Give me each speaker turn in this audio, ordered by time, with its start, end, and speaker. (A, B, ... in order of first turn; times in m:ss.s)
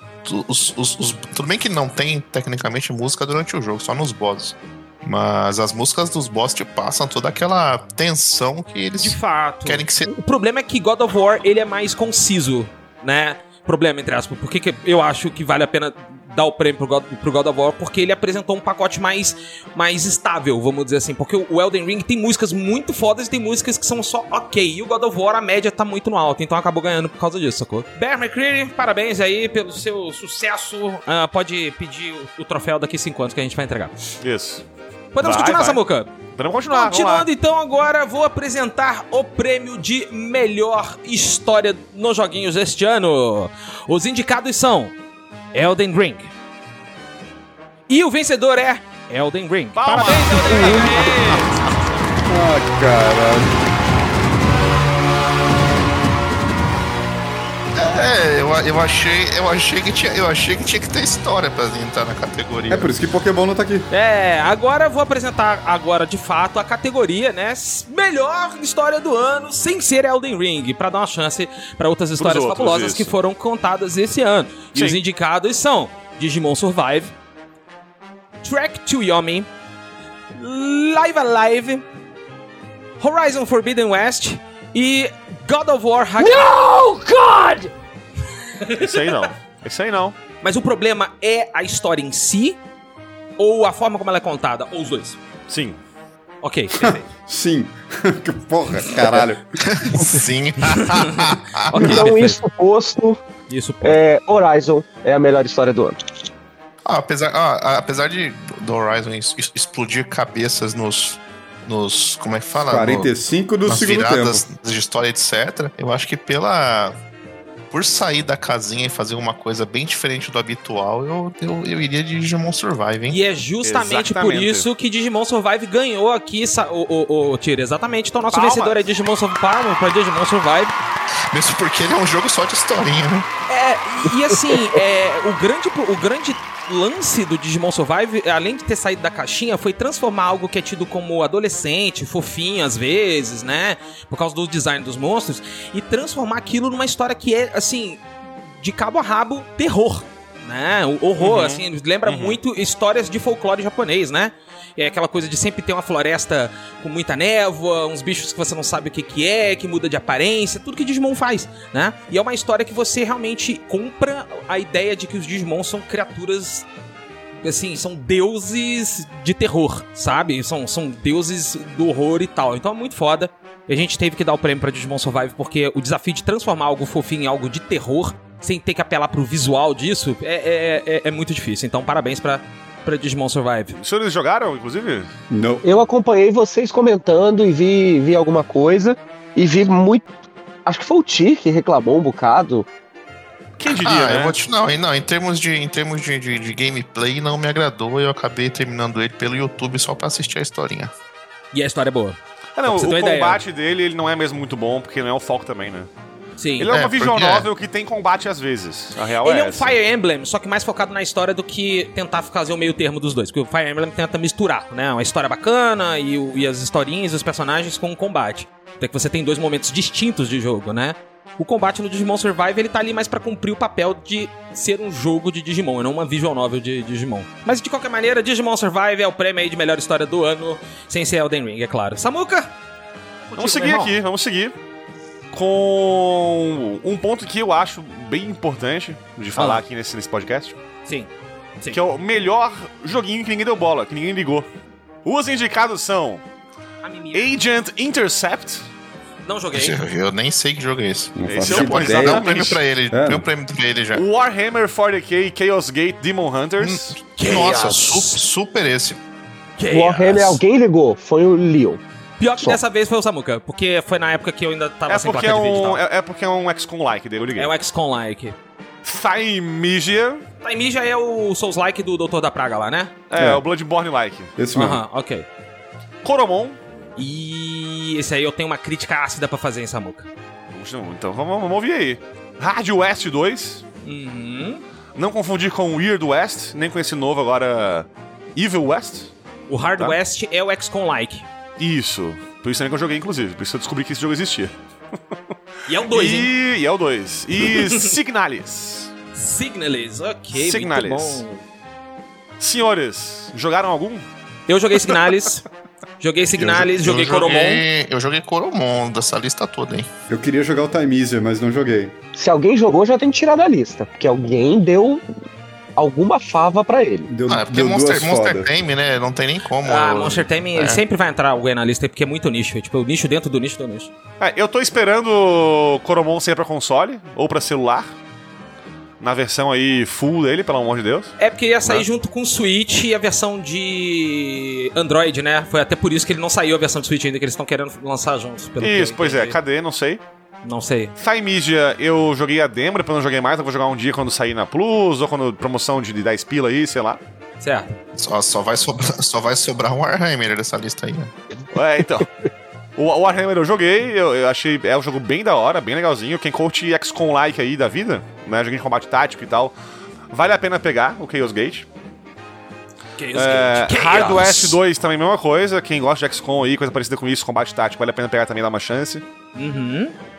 0:00.2-0:10.1 A
0:09.0-0:34.0 B
0:34.2-0:34.6 C
0:35.1-0:36.1 B
0:35.2-0:37.3 C
0:36.7-0:44.9 B
0:45.5-0:46.3 B
0:47.9-0:51.6 B
0:49.8-0:51.9 C
0:50.5-0:51.1 D
0:52.3-0:53.6 E
0:57.8-1:02.9 A
1:02.7-1:03.9 E
1:03.9-1:17.1 B
1:12.2-1:13.1 C
1:18.4-1:19.5 B
1:20.4-1:21.8 B
1:23.0-1:27.2 B
1:28.6-1:29.2 B
1:28.8-1:30.2 C
1:30.4-1:32.6 B
1:33.4-1:35.2 B
1:35.5-1:35.8 C
1:36.4-1:37.1 B
1:36.8-1:39.5 E
1:39.6-1:41.8 A
1:40.8-1:42.4 B
1:41.7-1:43.2 D
1:43.5-1:44.0 B
1:43.8-1:46.0 D
1:46.8-1:53.1 A
1:52.7-1:54.4 E
1:53.6-1:56.9 A
1:57.7-2:03.2 A
2:03.1-2:10.7 B
2:03.6-2:04.7 C
2:08.3-2:08.8 C
2:11.3-2:13.3 A
2:13.5-2:28.1 B
2:28.6-2:46.6 B
2:31.2-2:32.4 C
2:47.4-3:03.8 B
3:03.8-3:05.1 C
3:05.3-3:05.6 E
3:05.6-3:10.1 D
3:10.6-3:12.7 D
3:13.6-3:14.4 C
3:13.7-3:20.9 A
3:21.5-3:23.4 B
3:22.6-3:25.9 C
3:26.4-3:26.7 B
3:26.6-3:29.8 C
3:26.7-3:27.5 A
3:29.2-3:52.5 B
3:53.3-3:54.0 B
3:53.4-3:54.5 C
3:55.3-4:00.6 C
3:59.4-3:59.6 B
4:01.7-4:04.5 C
4:05.0-4:06.2 C
4:06.8-4:07.3 B
4:07.1-4:08.6 C
4:09.3-4:09.8 B
4:09.5-4:14.0 A
4:11.2-4:12.2 E
4:11.3-4:12.6 C
4:12.9-4:13.3 E
4:13.9-4:17.0 C
4:16.6-4:19.0 A
4:17.2-4:18.2 B
4:19.6-4:20.4 B
4:19.7-4:21.8 D
4:22.2-4:25.8 B
4:24.9-4:27.5 C
4:27.4-4:28.4 B
4:28.8-4:30.2 C
4:30.4-4:32.9 B
4:33.1-4:34.3 C
4:33.1-4:33.4 E
4:34.4-4:34.8 E
4:34.5-4:35.3 B
4:36.0-4:36.6 C
4:37.0-4:40.1 B
4:40.5-4:43.6 C
4:43.8-4:44.6 B
4:45.0-4:49.1 C
4:49.5-4:51.3 B
4:51.6-4:54.5 C
4:55.7-4:56.3 B
4:55.9-4:58.9 C
4:57.4-4:57.9 B
4:59.1-5:01.4 B
5:00.4-5:01.2 C
5:02.4-5:04.1 C
5:04.5-5:05.4 B
5:06.0-5:07.6 B
5:06.4-5:09.9 A
5:10.1-5:11.9 E
5:12.1-5:15.0 D
5:15.8-5:17.1 D
5:17.1-5:18.5 E
5:17.3-5:20.8 A
5:19.6-5:23.9 B
5:24.2-5:27.9 C
5:29.0-5:31.9 C
5:31.2-5:39.4 B
5:38.6-5:40.0 C
5:40.4-5:40.9 B
5:41.0-5:47.0 C
5:47.4-5:47.8 B
5:48.0-5:51.1 A
5:51.5-5:52.1 C
5:52.8-5:59.5 C
6:00.1-6:01.6 C
6:03.0-6:04.6 B
6:03.1-6:09.0 C
6:09.4-6:09.9 B